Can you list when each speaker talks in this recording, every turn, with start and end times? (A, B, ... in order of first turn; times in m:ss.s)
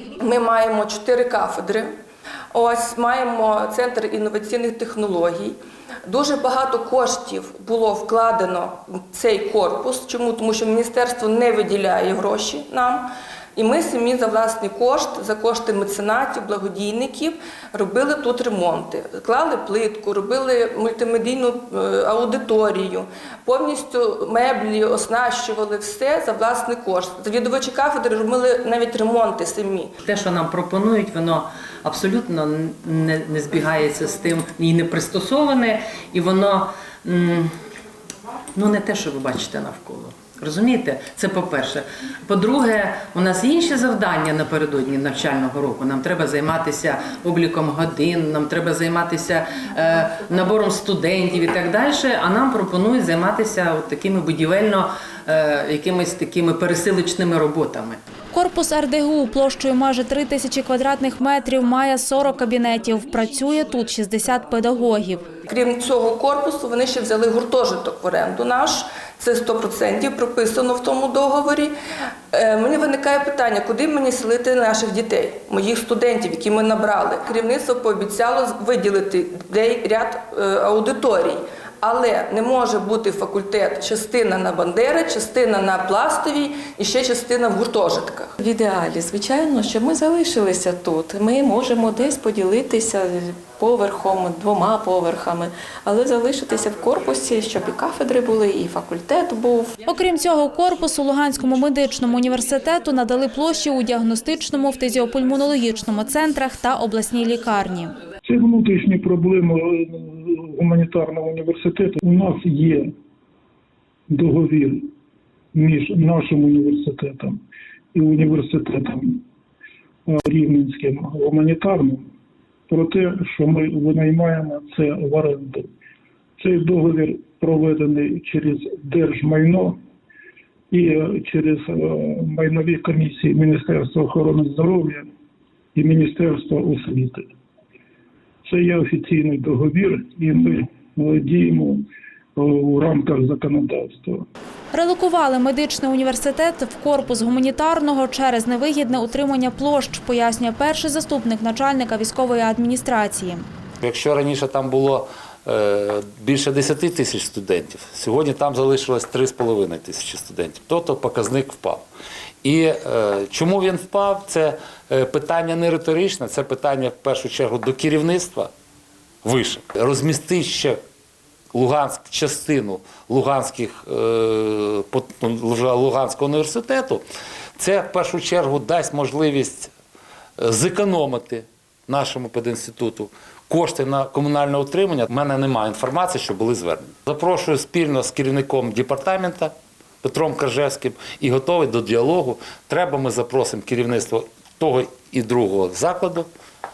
0:00.2-0:01.9 A
0:02.5-0:29.9 A
0:30.0-0:37.5 B
0:38.6-0:58.0 B
0:58.3-1:05.2 C
1:05.5-1:11.7 A
1:12.3-1:28.4 A
1:28.4-1:39.7 D
1:39.9-1:47.9 C
1:48.2-1:52.9 E
1:54.1-1:54.9 E
1:55.5-1:57.4 E
1:57.9-1:59.2 E
2:00.1-2:02.1 E
2:02.7-2:05.7 E
2:06.4-2:09.8 E
2:10.7-2:15.1 E
2:15.8-2:17.3 E
2:18.4-2:21.8 E
2:22.4-2:24.3 E
2:24.7-2:33.4 C
2:33.8-2:41.8 F
2:42.4-2:48.5 F
2:49.2-2:50.8 F
2:51.5-2:57.0 F
2:57.6-2:59.7 F
3:00.4-3:16.3 F